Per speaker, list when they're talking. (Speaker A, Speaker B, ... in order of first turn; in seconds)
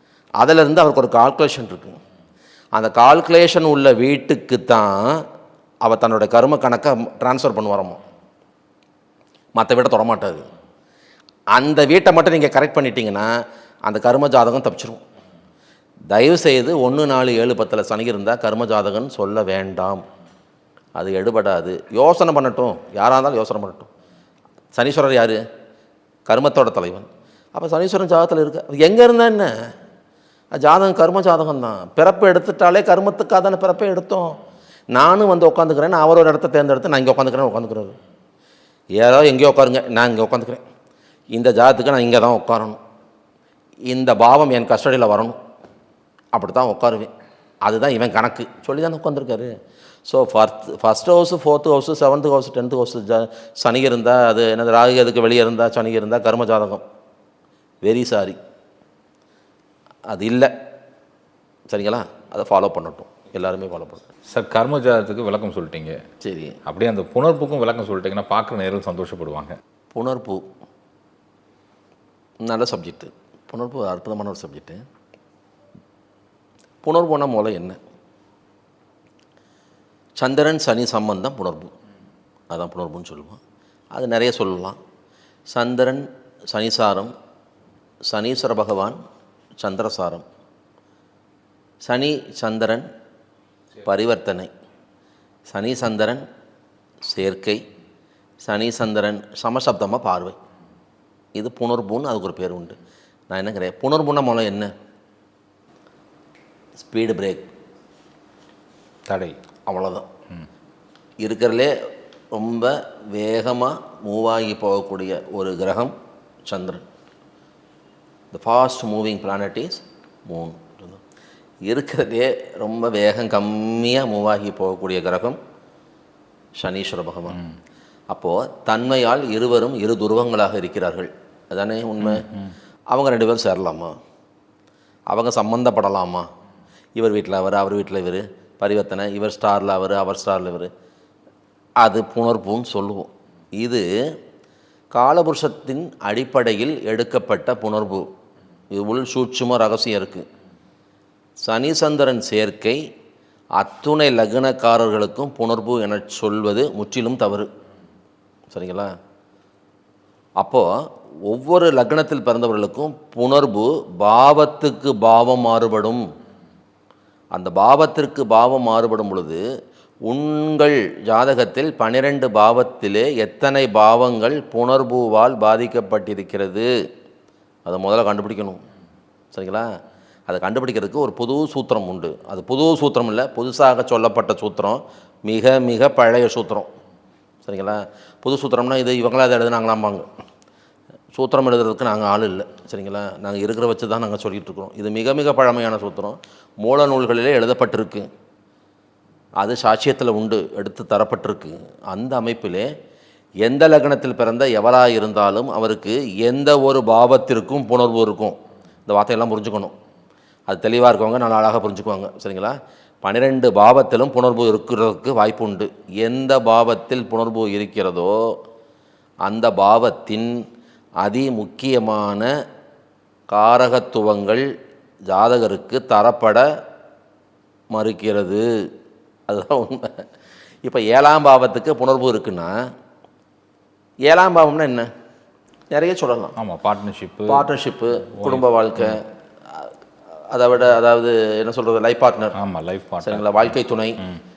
Speaker A: 0.4-2.0, 2.7-5.2, 5.8-8.0, 9.6-10.4, 11.5-13.3, 13.9-15.0, 16.1-20.0, 21.0-23.9, 24.7-25.4, 26.3-29.5, 30.6-34.4, 34.9-38.0, 39.0-40.6, 41.3-42.8, 43.9-45.4, 46.3-47.1, 47.6-49.5, 50.1-56.8, 57.8-58.4, 60.1-60.5, 61.7-64.0, 66.2-66.6, 69.9-70.4, 72.4-74.8, 76.8-77.8, 80.2-81.7, 82.5-83.4, 83.9-84.8, 85.5-87.1, 88.1-89.0, 89.6-90.2, 91.8-92.8, 93.8-94.5, 95.5-96.2, 97.0-97.6, 98.4-100.3, 101.3-102.8, 103.3-104.7, 106.8-107.5, 109.7-110.0, 111.2-111.7, 112.3-115.9, 116.5-116.8, 118.3-121.0, 121.7-125.4, 126.5-127.4, 128.1-132.3, 132.9-133.9, 135.1-136.2, 136.9-140.7, 141.8-143.8, 144.9-148.0, 148.7-150.2, 151.4-152.8, 153.6-157.5, 158.5-158.9, 160.4-160.7, 161.3-166.0, 167.3-169.4, 170.1-176.7, 177.7-178.6, 179.3-179.6, 180.3-186.7, 187.4-190.1, 191.1-198.1, 199.4-202.7, 203.4-208.3, 208.9-209.7, 210.5-218.1, 219.2-220.3, 221.0-222.3, 223.3-224.4, 225.1-226.4, 227.7-228.4, 229.3-230.0, 230.6-232.5, 234.1-234.9, 235.7-236.3, 237.3-239.7, 240.3-242.3, 243.0-244.0
Speaker B: 64.3-66.0, 66.7-69.5, 109.1-109.3, 132.0-132.5, 236.4-237.5, 238.2-239.0, 242.4-244.2